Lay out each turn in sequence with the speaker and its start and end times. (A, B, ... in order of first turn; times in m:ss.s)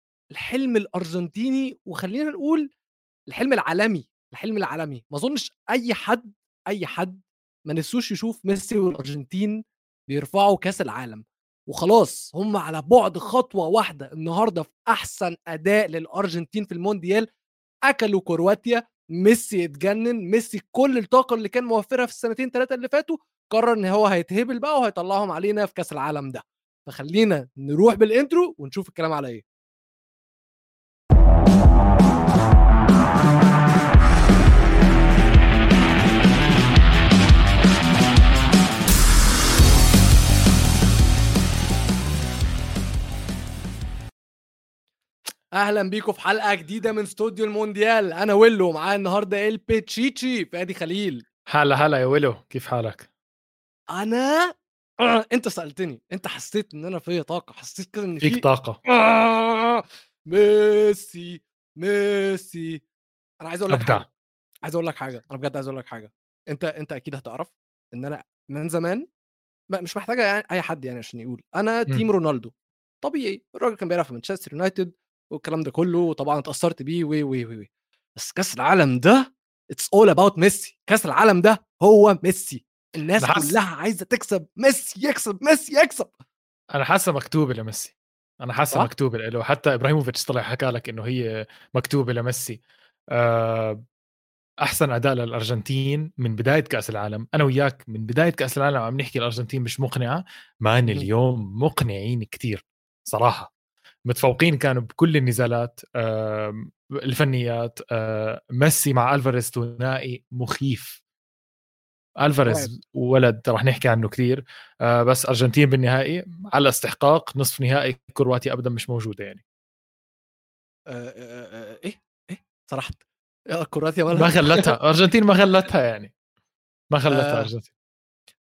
0:00.3-0:02.7 A
0:03.3-0:17.3 A
0:17.9-0:29.4 A
0:45.6-0:51.3 A
0:51.5-0:53.1 B
0:53.9-1:02.8 A
0:58.2-0:58.8 B
1:03.4-1:04.1 A
1:03.7-1:04.0 B
1:04.6-1:09.1 A
1:09.7-1:26.1 A
1:23.2-1:23.6 B
1:26.7-1:32.6 B
1:33.1-1:33.8 B
1:34.6-1:43.5 B
1:44.1-1:51.0 B
1:52.2-1:59.4 B
2:00.9-2:04.7 A
2:04.1-2:06.1 B
2:06.9-2:07.7 B
2:07.1-2:07.5 A